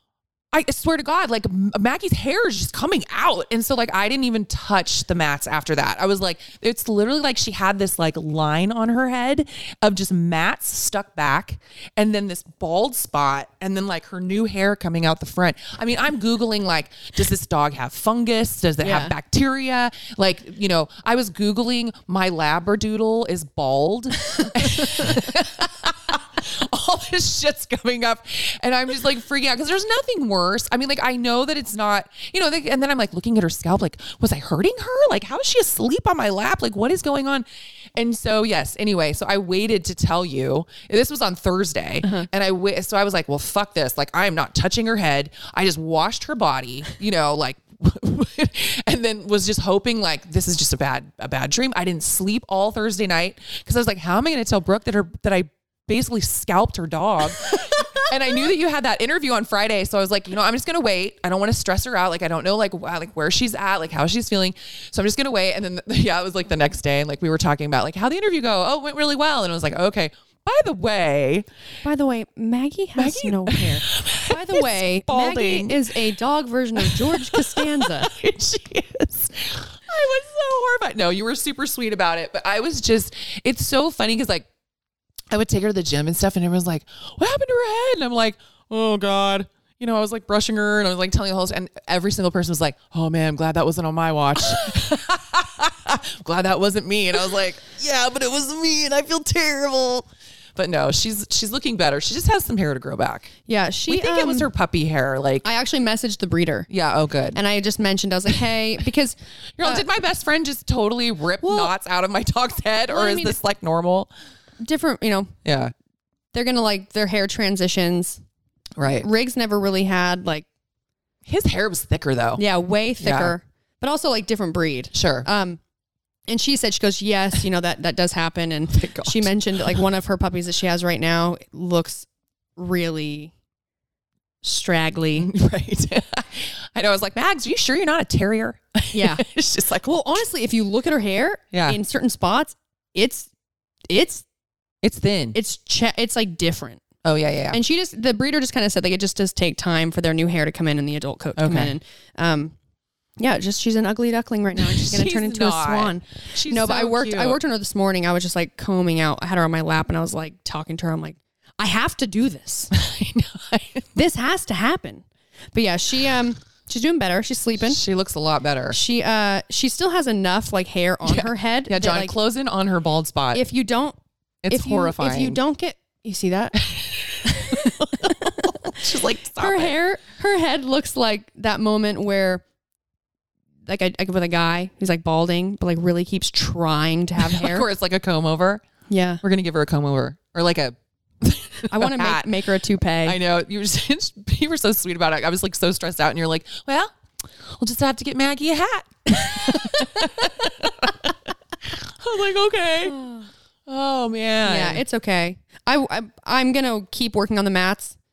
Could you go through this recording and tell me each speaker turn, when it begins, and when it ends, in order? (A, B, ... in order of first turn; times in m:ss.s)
0:00.5-1:11.5 A
0:18.8-0:19.1 B
0:24.7-0:25.0 B
1:11.8-1:18.1 B
1:13.0-1:16.0 A
1:16.8-1:24.4 A
1:25.3-1:40.0 A
1:40.6-1:43.3 A
1:43.5-1:44.5 B
1:43.9-1:45.4 A
1:45.4-1:46.7 B
1:46.7-1:47.4 A
1:47.3-1:49.8 B
1:49.6-1:54.1 A
1:51.4-1:51.7 B
1:52.9-1:53.4 B
1:54.6-1:55.3 B
1:55.4-1:55.7 A
1:56.3-1:58.2 B
1:58.8-1:59.1 A
1:59.0-2:00.4 B
2:01.2-2:02.4 A
2:02.4-2:05.6 B
2:03.0-2:03.4 A
2:04.9-2:05.3 A
2:06.3-2:12.0 B
2:08.7-2:09.8 A
2:12.6-2:13.3 B
2:14.4-2:15.3 B
2:15.2-2:20.1 A
2:18.9-2:19.2 B
2:19.8-2:23.3 B
2:21.5-2:21.8 A
2:23.9-2:24.2 B
2:24.8-2:25.4 A
2:25.3-2:26.8 B
2:27.0-2:27.6 A
2:27.5-2:32.5 B
2:31.4-2:31.7 A
2:33.2-2:42.7 B
2:34.6-2:37.4 A
2:42.7-2:43.9 A
2:43.9-2:47.8 B
2:47.6-2:48.8 A
2:48.7-2:52.1 B
2:51.0-2:53.4 A
2:53.3-2:54.0 B
2:54.4-2:55.4 A
2:54.5-2:56.6 B
2:56.6-2:59.8 A
2:57.2-2:58.7 B
2:59.4-3:02.4 B
3:03.7-3:07.6 B
3:07.2-3:08.6 A
3:08.9-3:09.2 B
3:09.2-3:12.4 A
3:11.7-3:13.2 B
3:13.0-3:16.9 A
3:17.6-3:21.1 A
3:19.1-3:20.0 B
3:22.0-3:23.0 A
3:22.8-3:23.3 B
3:23.7-3:24.8 A
3:24.4-3:27.9 B